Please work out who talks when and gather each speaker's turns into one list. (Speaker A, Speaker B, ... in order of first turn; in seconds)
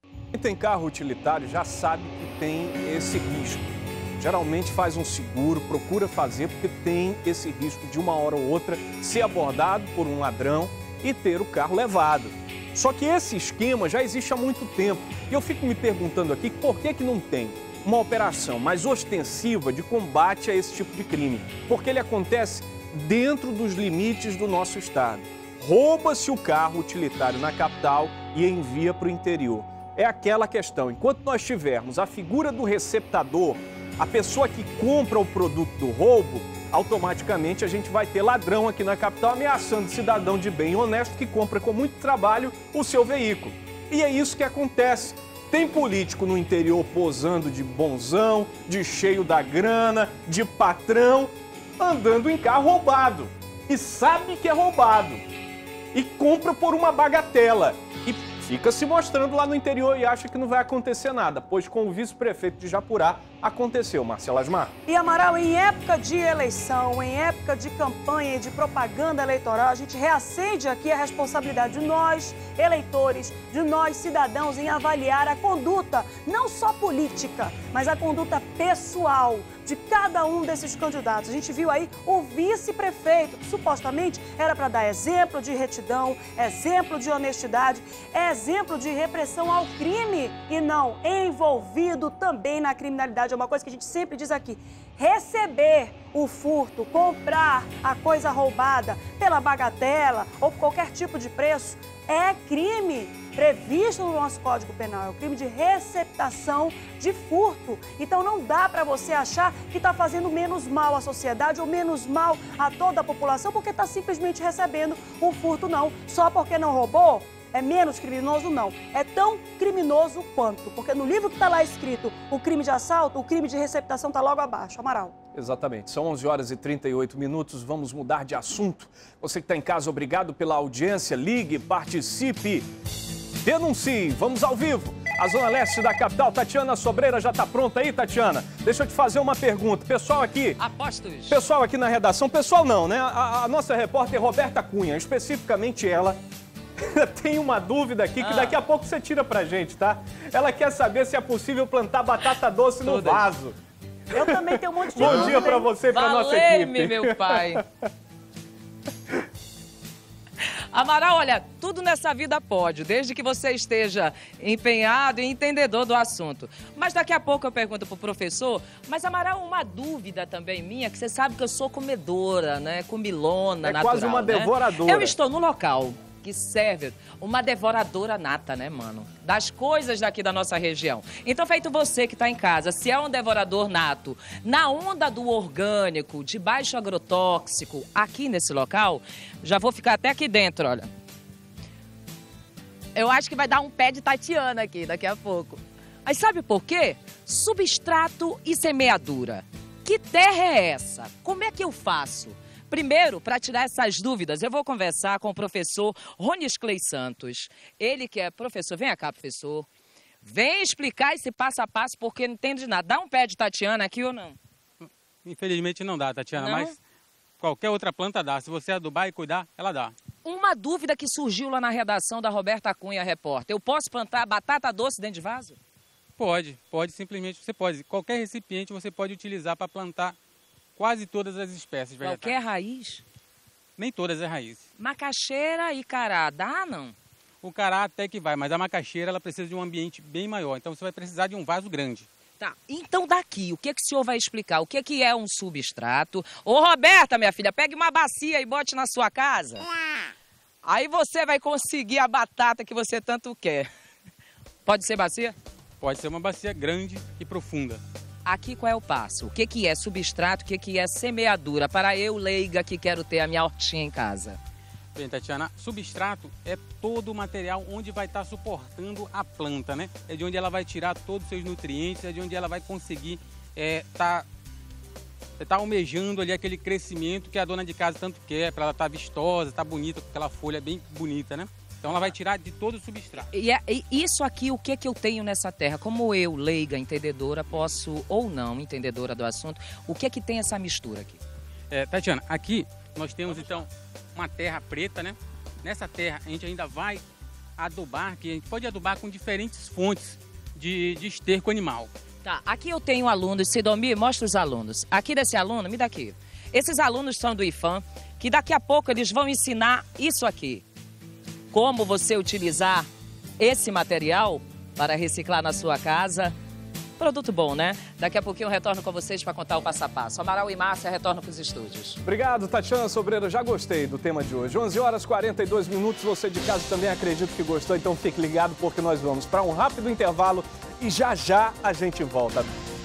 Speaker A: 0.3-55.2, 55.9-64.7, 125.3-132.7, 133.4-140.6, 141.3-146.2, 146.8-153.6, 154.9-157.6, 173.6-175.1, 322.0-332.6
Speaker B: 64.8-125.1, 154.1-155.7
Speaker C: 140.6-141.4, 148.2-148.6, 152.8-153.3, 155.9-157.6, 160.7-190.9, 192.9-209.7, 210.2-214.4, 216.3-216.7, 220.2-225.6, 232.0-233.0, 234.8-236.9, 242.4-249.7, 250.6-253.7, 254.6-255.3, 258.2-264.4, 283.3-291.2, 302.2-310.6, 311.5-312.9, 313.4-316.3, 317.0-322.0
Speaker D: 215.2-216.8, 217.4-219.9, 226.2-230.2, 230.8-232.4, 233.8-234.6, 237.4-242.1, 255.8-257.8, 264.9-274.2, 275.4-283.3, 291.7-297.0, 297.6-301.9